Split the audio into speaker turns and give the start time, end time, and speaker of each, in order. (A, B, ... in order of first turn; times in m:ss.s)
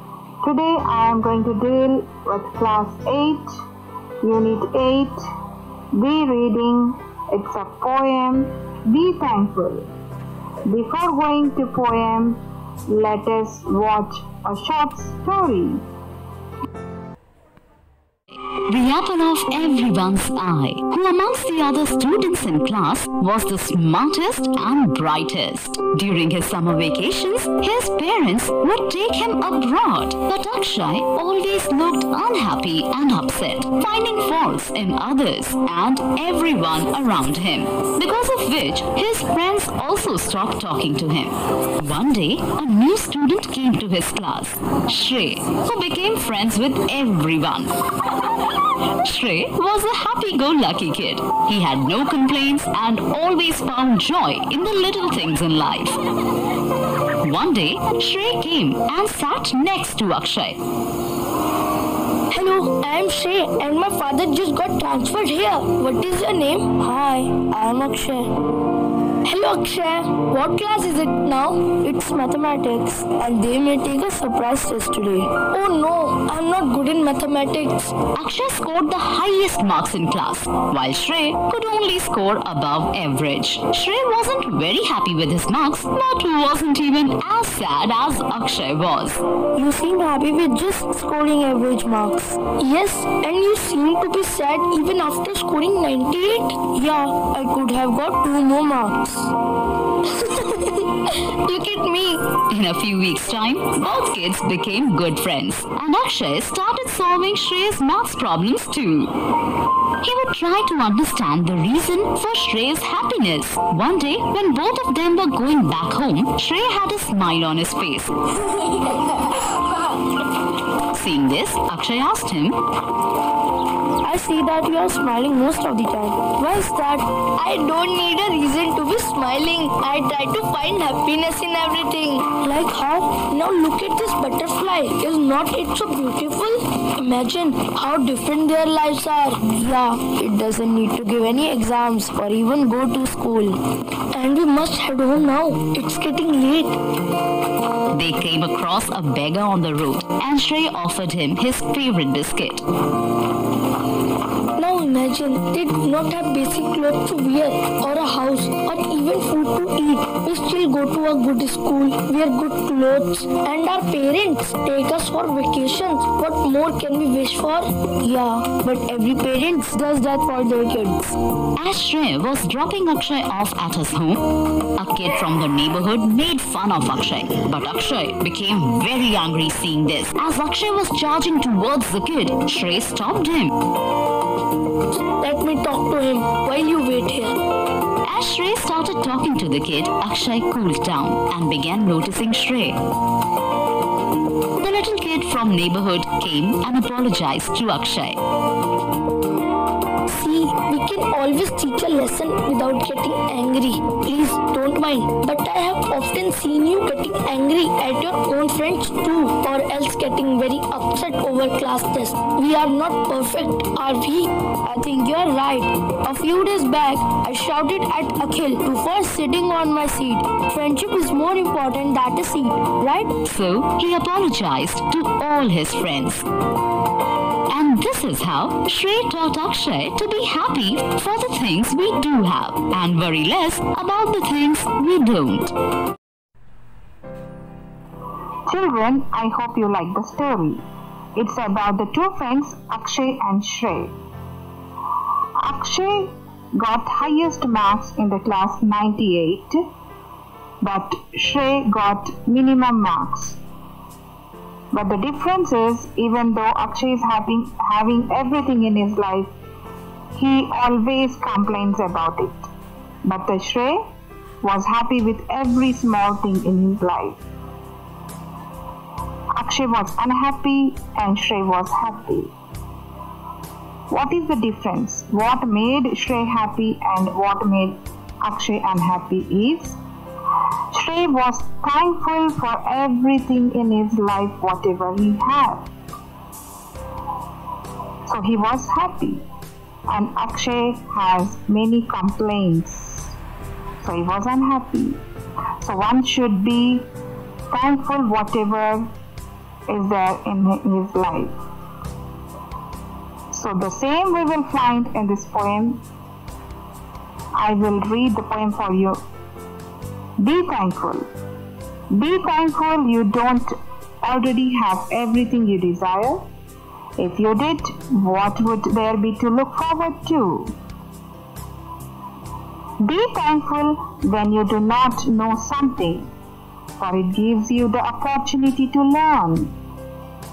0:00.4-0:03.5 A
0:04.2-0:05.2 A
0:05.9-0:09.9 A
0:10.7-0:15.8 A
0:18.7-0:56.0 B
0:57.1-1:00.6 B
1:02.3-1:08.4 C
1:09.2-1:18.0 C
1:18.2-1:29.2 B
1:29.5-1:39.3 C
1:40.0-1:42.4 C
1:42.4-1:49.1 B
1:50.0-1:58.4 B
2:00.9-2:02.6 B
2:04.0-2:23.6 C
2:24.1-2:26.8 C
2:27.9-2:32.6 B
2:34.6-2:51.2 C
2:51.6-3:03.6 B
3:05.2-3:07.4 C
3:08.0-3:12.8 B
3:14.6-3:18.2 B
3:20.1-3:43.2 C
3:43.2-3:46.3 B
3:47.5-3:55.5 B
3:58.5-4:00.6 A
4:01.2-4:04.0 A
4:05.4-4:09.6 A
4:10.6-4:13.4 A
4:14.7-4:19.3 A
4:20.1-4:22.5 A
4:23.0-4:23.8 A
4:24.4-4:27.2 A
4:29.4-4:32.3 A
4:33.9-4:39.8 A
4:40.7-4:45.7 A
4:48.1-4:49.2 A
4:49.9-4:53.2 A
4:53.8-4:55.0 A
4:55.6-4:56.9 A
4:57.5-4:58.9 A
4:59.7-5:01.4 A
5:03.3-5:05.8 A
5:07.4-5:09.0 A
5:10.2-5:11.1 A
5:11.9-5:16.3 A
5:17.0-5:20.6 A
5:22.8-5:26.1 A
5:26.8-5:29.5 A